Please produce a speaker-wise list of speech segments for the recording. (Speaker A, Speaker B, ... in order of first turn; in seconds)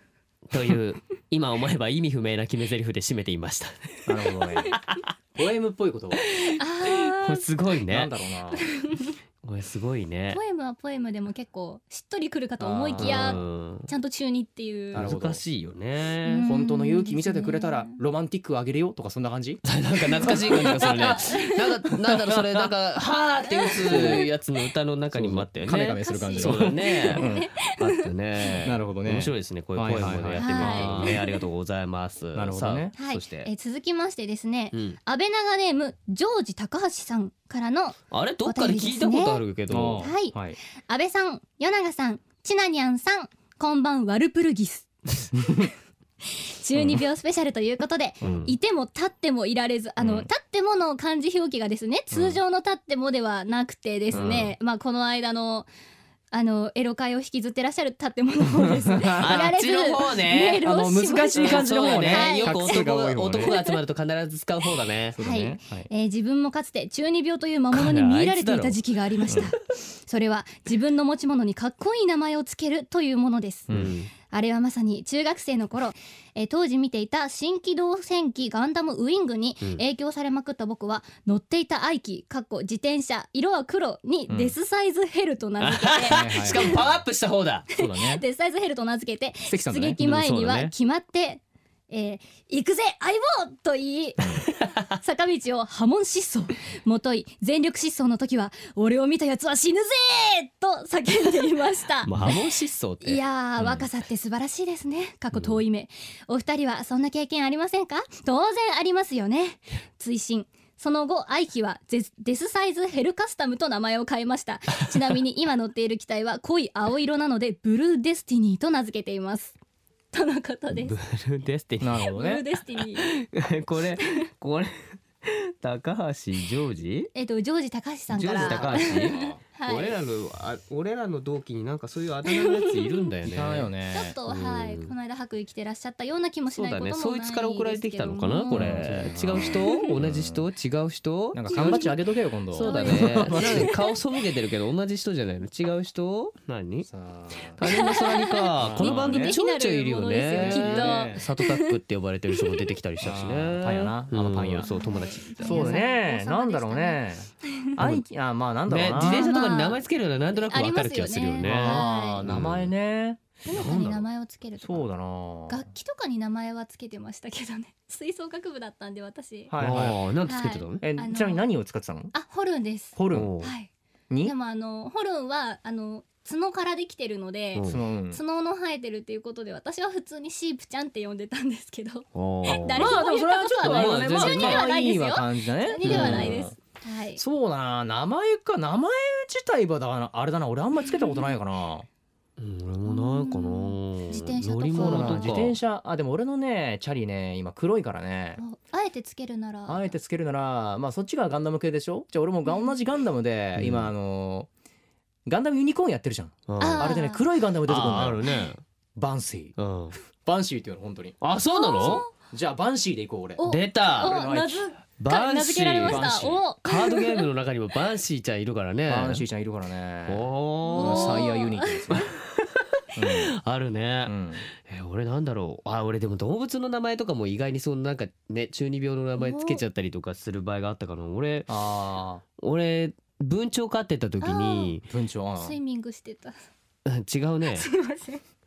Speaker A: 0.5-4.1, 4.7-5.0, 6.3-8.1, 9.4-10.4, 13.0-13.9, 14.9-16.5, 19.6-33.5, 34.7-35.0, 38.1-40.1, 48.2-48.5, 54.1-54.5, 59.2-60.7, 61.2-65.2, 67.7-69.5, 73.7-74.1, 85.6-87.7, 90.0-90.7, 94.6-94.9, 102.0-103.8, 105.3-105.6, 120.7-122.0, 122.8-127.1, 128.1-133.7, 134.3-134.9, 136.5-141.8, 142.5-146.9, 147.6-155.8, 157.8-158.0, 158.7-162.7, 163.5-164.0, 169.6-170.8, 173.1-173.5, 177.5-177.8, 182.1-183.0, 183.6-184.6, 185.8-186.4, 192.4-195.6, 203.6-203.9, 206.5-206.9, 207.7-208.6, 209.6-209.9, 211.2-212.1, 213.4-214.1, 215.0-219.2, 220.1-221.2, 221.9-231.6, 232.4-234.8, 236.8-237.7
Speaker B: 4.0-4.8, 5.3-6.2, 7.9-8.6, 12.6-13.4, 14.9-15.4, 16.4-21.2, 22.0-22.7, 23.7-24.2, 25.1-27.5, 28.6-31.2, 32.3-32.9, 39.7-40.6, 45.4-45.7, 50.0-50.2, 54.1-54.5, 58.6-59.3, 60.6-63.5, 65.1-65.9, 73.7-73.9, 86.1-86.8, 87.7-88.2, 89.5-90.0, 121.8-122.4, 128.4-129.4, 133.2-134.2, 138.5-140.4, 141.3-143.7, 146.8-147.6, 148.5-149.3, 150.3-151.2, 153.0-154.7, 155.4-159.3, 161.4-163.2, 164.6-165.7, 169.5-170.0, 170.8-172.1, 172.9-173.3, 177.7-178.2, 182.5-186.5, 187.2-191.8, 194.7-198.4, 199.7-204.5, 205.2-208.2, 208.9-209.5, 210.2-211.2, 212.2-213.4, 213.9-214.6, 215.8-216.4, 218.9-222.0, 222.9-223.3, 224.1-224.4, 231.5-232.2, 234.9-235.6
Speaker C: 6.4-7.5, 8.6-9.1, 10.3-15.1, 16.2-18.0, 20.1-21.5, 23.5-24.2, 26.0-28.6, 30.4-31.4, 33.0-39.4, 40.0-45.2, 46.2-55.7, 56.3-62.8, 63.3-63.8, 65.2-73.7, 74.2-86.8, 87.8-94.4, 95.0-102.4, 103.0-119.5, 120.1-121.0, 122.1-123.1, 127.1-129.9, 132.3-132.8, 133.9-139.9, 141.5-141.9, 142.6-143.9, 147.6-151.7, 154.7-157.7, 159.0-159.8, 160.3-162.3, 163.4-164.9, 165.5-169.5, 170.2-171.4, 172.1-173.7, 174.2-187.2, 190.9-191.3, 192.8-195.4, 198.4-199.9, 206.6-207.2, 211.5-212.1, 213.4-217.2, 220.6-222.0, 229.2-229.6, 234.2-234.8, 235.4-236.4, 237.5-238.2